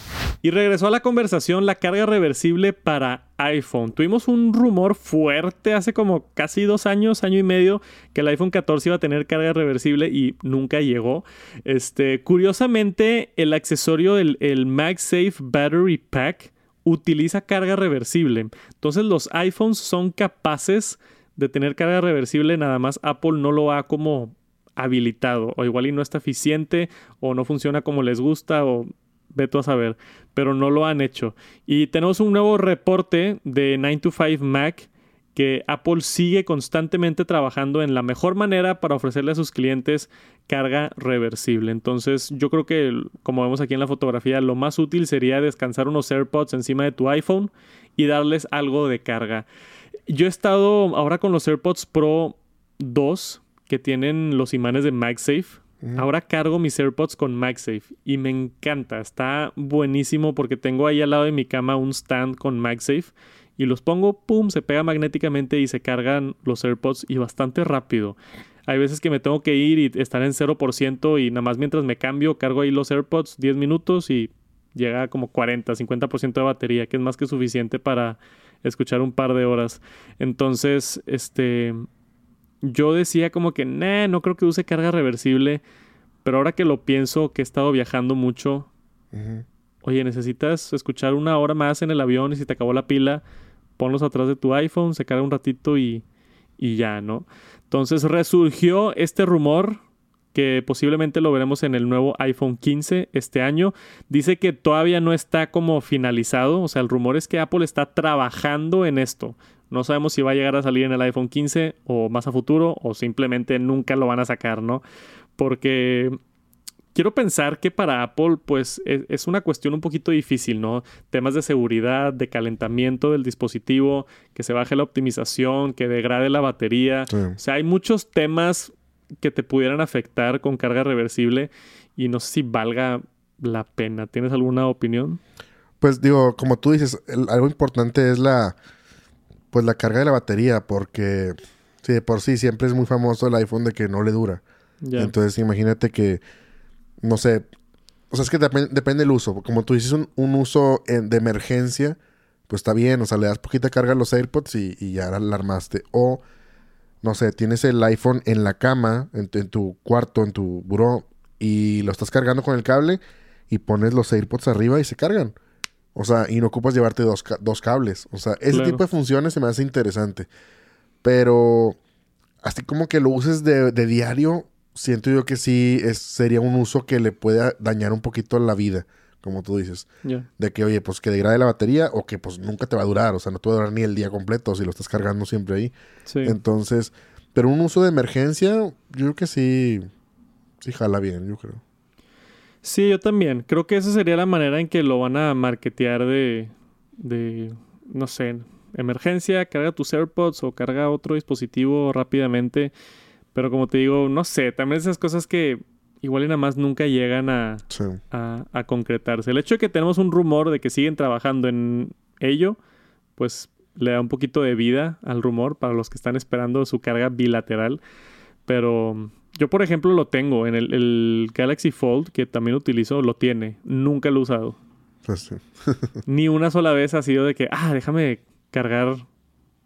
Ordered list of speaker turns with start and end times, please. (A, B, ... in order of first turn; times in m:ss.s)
0:00.4-0:49.4 A
0:50.1-1:21.8 A
1:22.6-1:25.6 A
1:26.2-1:28.7 A
1:29.1-1:29.4 B
1:29.8-1:33.2 A
1:33.8-1:36.0 A
1:36.6-1:39.8 A
1:40.3-1:54.8 A
1:55.4-1:56.2 A
1:56.9-2:15.2 A
2:07.1-2:07.4 B
2:15.8-2:18.6 B
2:19.5-2:24.4 B
2:24.8-2:25.1 A
2:25.0-2:26.2 B
2:27.0-2:27.4 B
2:28.1-2:32.0 B
2:32.5-2:36.2 B
2:37.0-2:45.4 B
2:45.9-2:50.3 B
2:48.5-2:48.8 A
2:51.0-2:51.8 B
2:52.4-2:59.9 B
3:00.4-3:05.7 B
3:06.1-3:06.4 A
3:06.2-3:09.9 B
3:10.6-3:11.6 B
3:12.6-3:22.7 A
3:23.3-3:32.6 A
3:27.7-3:28.0 B
3:33.2-3:37.8 A
3:38.5-3:44.6 A
3:45.0-3:46.0 B
3:46.0-3:49.0 A